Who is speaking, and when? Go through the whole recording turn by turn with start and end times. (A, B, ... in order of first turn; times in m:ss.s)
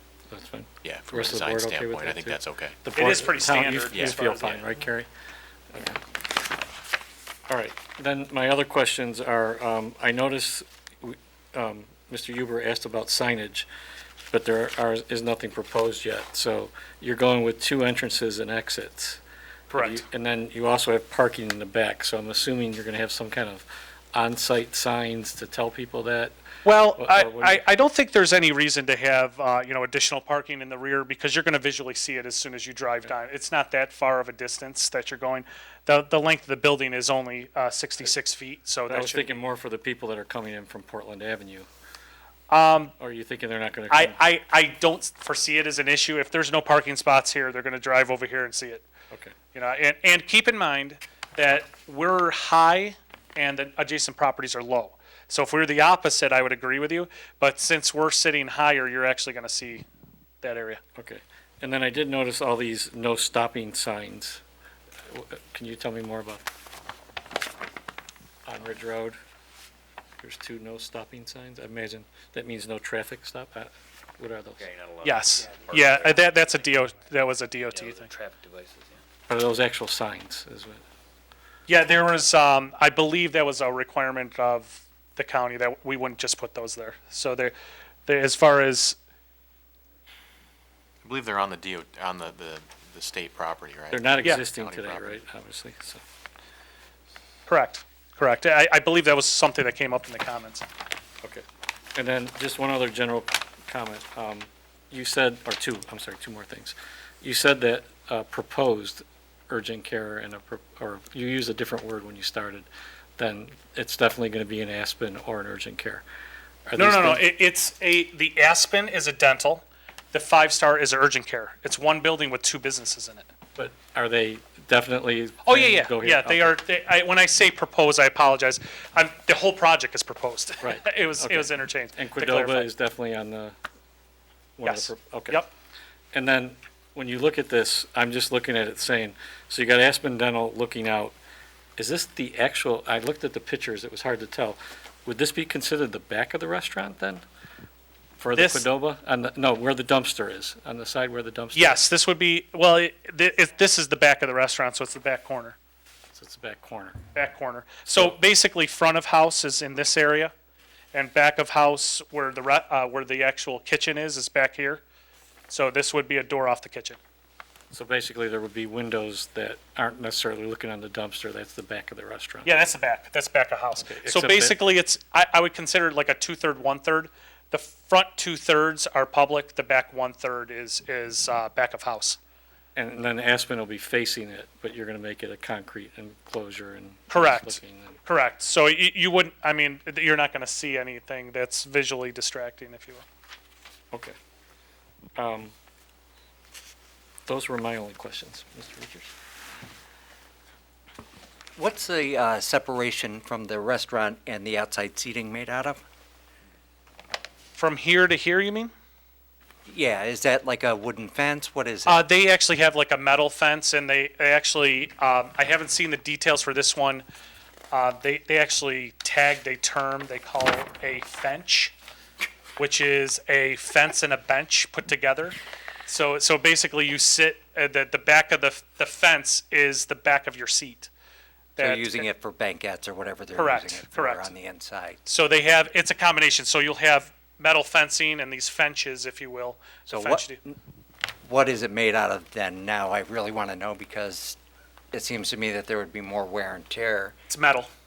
0:00.3-0:05.1 A
0:00.8-0:02.8 B
0:03.0-0:04.6 C
0:03.9-0:04.6 B
0:05.7-0:06.0 A
0:07.5-0:13.7 A
0:14.3-0:26.4 A
0:19.7-0:20.0 C
0:26.6-0:39.4 C
0:27.0-0:27.6 A
0:38.9-0:41.7 A
0:42.5-0:42.9 C
0:43.0-0:44.2 A
0:43.9-0:48.9 C
0:49.1-0:49.4 A
0:49.5-0:59.9 C
1:00.4-1:00.8 C
1:01.0-1:04.4 A
1:05.1-1:06.4 A
1:08.4-1:09.2 A
1:10.2-1:14.6 A
1:14.6-1:16.3 D
1:15.0-1:18.1 C
1:17.8-1:19.0 D
1:19.3-1:20.8 A
1:21.7-1:27.5 C
1:28.1-1:29.0 C
1:31.0-1:35.2 B
1:33.9-1:36.0 A
1:37.5-1:40.7 C
1:41.2-1:56.0 A
1:56.7-1:57.3 A
1:56.8-2:03.3 C
2:03.6-2:06.6 A
2:05.4-2:12.7 C
2:10.6-2:13.6 A
2:14.6-2:15.4 A
2:14.6-2:15.5 C
2:16.1-2:21.2 A
2:21.8-2:27.2 A
2:28.2-2:31.8 A
2:28.4-2:28.7 C
2:31.5-2:35.6 C
2:36.1-2:37.0 A
2:37.2-2:40.3 C
2:40.9-2:44.8 C
2:45.5-2:47.0 C
2:47.7-2:52.5 A
2:52.4-3:02.2 C
2:53.8-2:54.6 A
3:02.8-3:08.0 A
3:07.1-3:13.0 C
3:15.2-3:15.5 A
3:17.3-3:19.1 A
3:21.6-3:25.8 E
3:27.6-3:28.7 C
3:29.7-3:32.0 E
3:31.9-3:37.1 C
3:37.7-3:41.7 C
3:42.6-3:50.9 C
3:51.6-3:52.0 C
3:51.6-3:55.0 E
3:53.3-3:54.3 C
3:55.1-4:00.4 C
3:59.9-4:00.6 E
4:01.2-4:04.4 E
4:04.9-4:07.2 E
4:07.3-4:07.7 C